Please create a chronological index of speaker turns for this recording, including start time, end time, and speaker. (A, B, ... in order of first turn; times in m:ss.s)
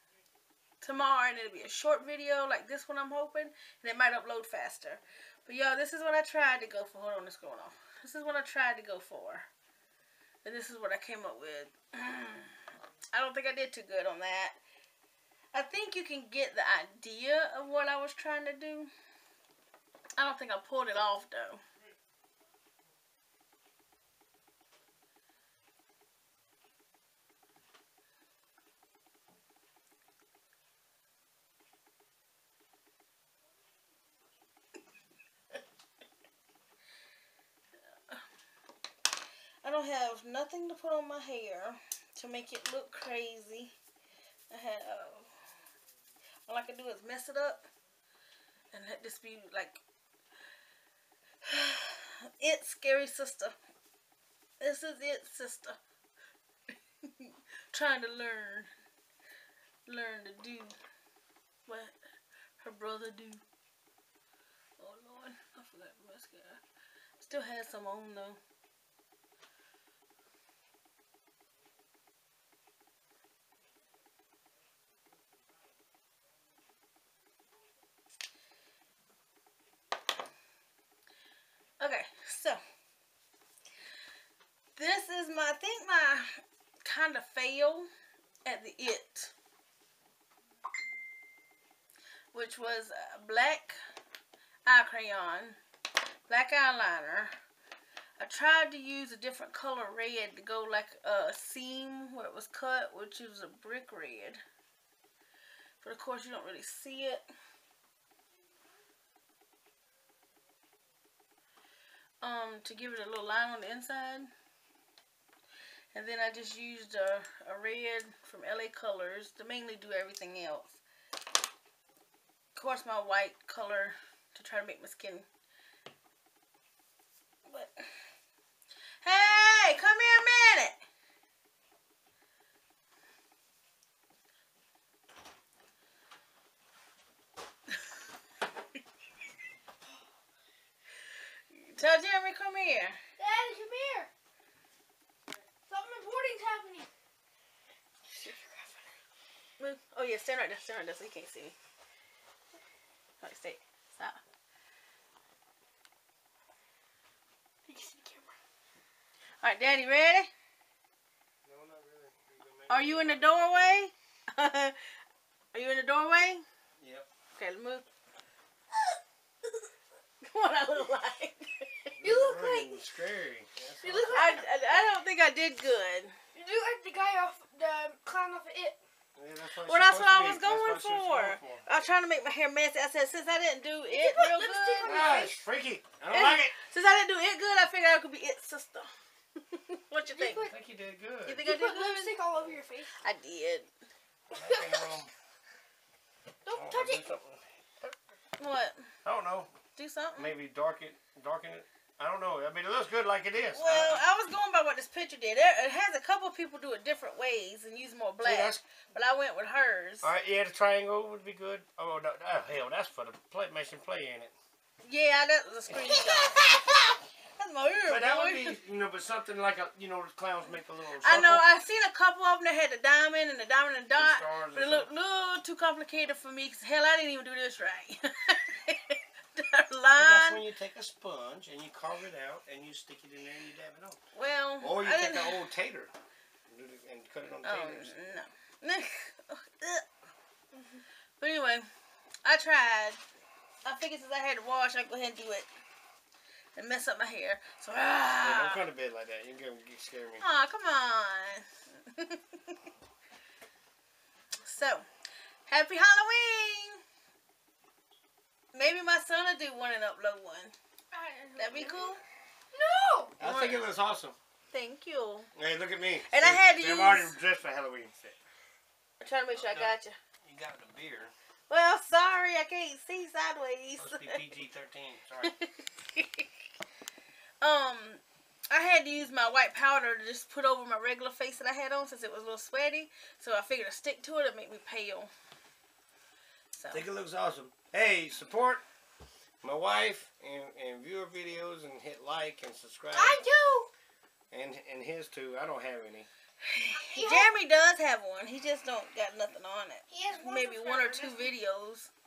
0:00.8-0:09.5 A
0:10.4-0:14.6 A
0:15.5-0:18.9 A
0:20.2-0:21.6 A
0:39.6-0:43.7 A
0:44.5-0:45.3 A
0:46.5-0:47.7 A
0:48.7-0:49.8 A
0:51.4-0:53.6 A
0:54.6-0:55.8 A
0:57.0-0:58.7 A
0:59.9-1:00.8 A
1:01.7-1:02.0 A
1:02.6-1:03.4 A
1:04.8-1:06.6 A
1:07.2-1:08.4 A
1:21.8-1:22.6 A
1:24.8-1:27.9 A
1:28.4-1:29.3 A
1:32.3-1:33.8 A
1:34.7-1:35.6 A
1:36.3-1:37.3 A
1:38.2-1:44.4 A
1:45.8-1:47.2 A
1:52.2-1:54.3 A
1:55.9-2:00.8 A
2:02.6-2:05.3 A
2:07.5-2:07.9 A
2:09.0-2:10.8 A
2:21.5-2:23.0 A
2:23.2-2:24.1 B
2:25.7-2:26.9 B
2:28.0-2:29.0 B
2:29.6-2:31.6 A
2:33.2-2:34.2 A
2:37.7-2:38.4 B
2:39.4-2:40.3 A
2:41.4-2:43.9 C
2:42.7-2:45.0 A
2:45.5-2:46.4 A
2:46.8-2:47.1 C
2:47.4-2:47.9 A
2:50.2-2:51.9 A
2:51.9-2:54.4 C
2:52.0-2:52.9 B
2:53.8-2:54.5 B
2:54.1-2:56.2 A
2:56.3-2:58.8 B
2:59.2-3:01.7 C
2:59.6-3:05.1 A
3:03.9-3:05.4 B
3:04.8-3:06.6 C
3:06.1-3:10.5 A
3:10.1-3:10.6 B
3:10.4-3:11.4 C
3:11.3-3:12.2 A
3:11.4-3:13.0 B
3:13.0-3:13.7 A
3:14.3-3:15.1 C
3:14.4-3:14.9 B
3:16.4-3:17.1 B
3:16.5-3:17.9 C
3:18.4-3:18.9 A
3:19.0-3:19.5 C
3:19.8-3:20.3 A
3:20.2-3:24.0 C
3:23.6-3:30.1 A
3:28.2-3:28.6 C
3:30.0-3:34.3 C
3:34.8-3:36.8 A
3:35.7-3:36.0 C
3:36.3-3:36.8 B
3:37.4-3:38.6 A
3:37.9-3:41.4 C
3:41.0-3:50.4 A
3:43.9-3:44.9 C
3:50.0-3:54.0 C
3:54.1-3:55.5 A
3:54.6-3:55.9 C
3:56.5-3:58.2 C
3:57.4-3:59.9 A
4:01.2-4:01.7 A
4:02.2-4:03.0 A
4:03.6-4:05.5 A
4:06.6-4:08.6 A
4:08.2-4:10.2 C
4:10.2-4:12.6 A
4:14.4-4:14.9 A
4:15.5-4:16.8 A
4:18.5-4:20.5 A
4:20.9-4:22.0 B
4:21.4-4:22.0 A
4:22.5-4:23.2 B
4:23.2-4:24.2 C
4:23.2-4:23.7 A
4:24.5-4:25.3 A
4:25.4-4:28.2 C
4:26.1-4:27.2 A
4:29.0-4:30.0 A
4:29.3-4:31.1 C
4:31.5-4:34.2 A
4:33.8-4:35.3 C
4:35.2-4:36.3 A
4:37.4-4:45.1 A
4:46.6-4:46.8 A
4:46.7-4:48.6 C
4:49.4-4:53.2 C
4:52.9-4:53.7 B
4:54.3-4:56.1 C
4:56.4-5:01.9 A
4:56.8-4:57.3 B
4:59.9-5:01.3 B